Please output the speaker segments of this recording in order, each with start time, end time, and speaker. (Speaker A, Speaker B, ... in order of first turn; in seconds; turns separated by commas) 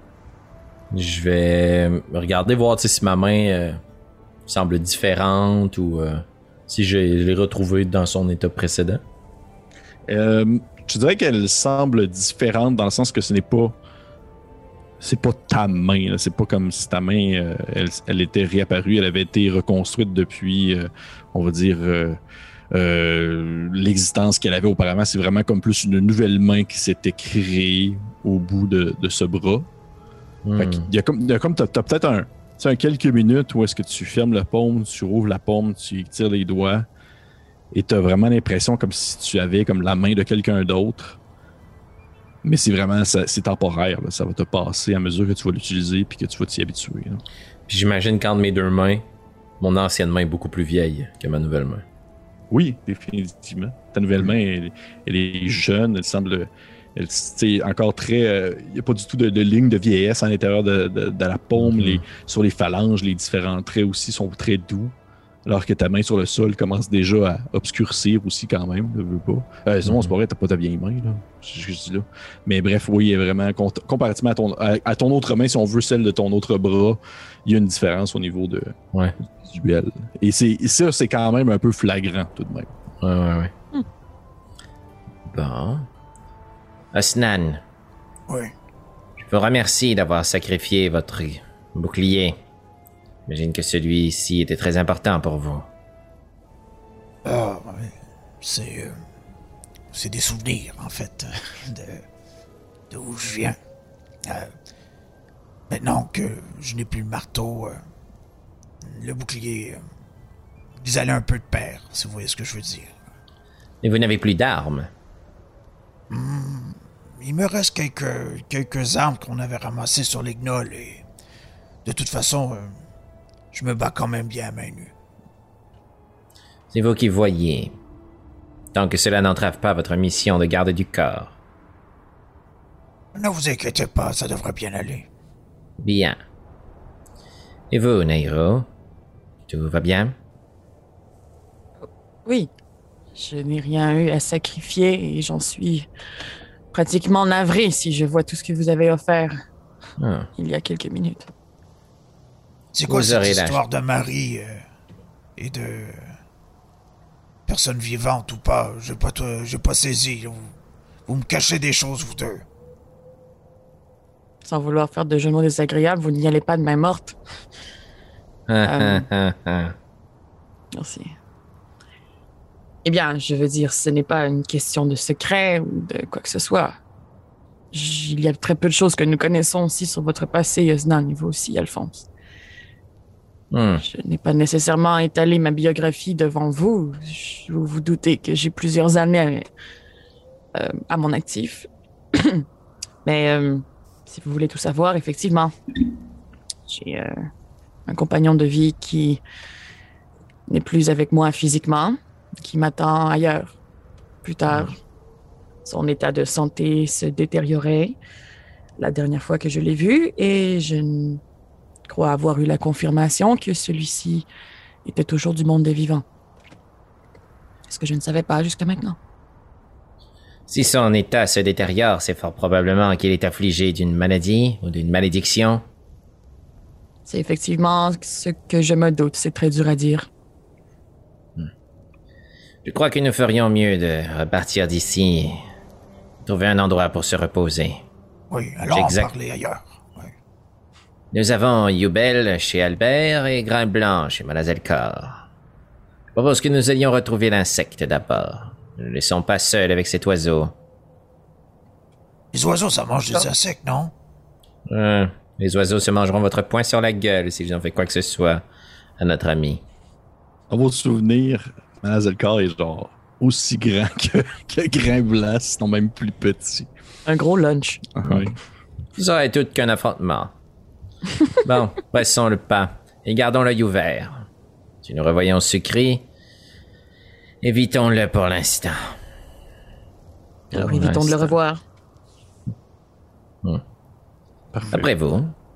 Speaker A: 0.9-3.8, Speaker A: 4.5-9.0, Speaker B: 10.1-13.8, Speaker B: 15.0-22.2, Speaker B: 22.7-29.7, Speaker A: 30.4-30.9, Speaker B: 30.6-36.9, Speaker B: 37.7-41.2, Speaker B: 42.4-47.2, Speaker A: 47.7-49.0, Speaker A: 49.6-51.8, Speaker B: 52.5-65.0, Speaker A: 61.6-62.0, Speaker B: 65.5-78.8, Speaker A: 69.8-70.1, Speaker B: 79.4-82.7, Speaker A: 83.0-83.5, Speaker A: 85.3-85.9, Speaker A: 86.9-87.6, Speaker A: 89.2-92.4, Speaker A: 93.3-95.7, Speaker C: 97.2-99.0, Speaker C: 99.9-102.0, Speaker C: 102.9-103.6, Speaker C: 105.7-107.8, Speaker C: 108.8-109.8, Speaker C: 110.8-112.9, Speaker A: 113.8-114.9, Speaker C: 116.1-121.0, Speaker C: 121.8-122.7, Speaker C: 123.5-124.9, Speaker A: 126.7-127.7, Speaker A: 128.7-131.3, Speaker C: 133.2-135.1, Speaker A: 135.8-136.2, Speaker A: 137.7-138.7, Speaker A: 139.5-140.2, Speaker D: 142.2-142.5, Speaker D: 143.2-145.9, Speaker D: 146.7-149.4, Speaker A: 150.0-150.3, Speaker D: 150.4-151.3, Speaker C: 152.7-154.6, Speaker A: 152.9-153.6, Speaker C: 155.4-156.0, Speaker C: 157.5-160.5, Speaker C: 161.1-162.4, Speaker D: 164.4-167.2, Speaker A: 168.5-169.8, Speaker D: 168.7-169.1, Speaker D: 170.8-171.1, Speaker D: 172.8-176.8, Speaker D: 177.7-182.1, Speaker A: 183.5-183.8, Speaker D: 183.8-189.5, Speaker D: 190.6-192.4, Speaker D: 193.1-195.5, Speaker D: 196.7-197.2, Speaker D: 197.9-199.2, Speaker D: 200.5-203.6, Speaker D: 204.2-204.8, Speaker A: 204.5-204.7, Speaker D: 205.7-208.0, Speaker D: 208.8-211.2, Speaker D: 211.9-214.3, Speaker D: 214.8-216.1, Speaker D: 217.7-219.0, Speaker A: 220.5-225.6, Speaker D: 227.1-230.1, Speaker A: 232.7-235.4, Speaker A: 236.2-237.8, Speaker C: 238.3-240.1, Speaker A: 238.7-239.1, Speaker A: 241.1-245.2, Speaker A: 246.2-250.5, Speaker C: 252.3-253.9, Speaker A: 254.7-258.4, Speaker A: 259.0-259.6, Speaker B: 260.5-266.7, Speaker D: 267.1-267.8, Speaker B: 267.9-268.4, Speaker A: 268.0-268.3, Speaker A: 269.0-270.3, Speaker A: 271.4-274.3, Speaker A: 274.8-276.0, Speaker A: 277.4-278.9, Speaker A: 280.5-281.4, Speaker D: 280.5-281.6, Speaker B: 284.5-284.9, Speaker A: 284.7-285.4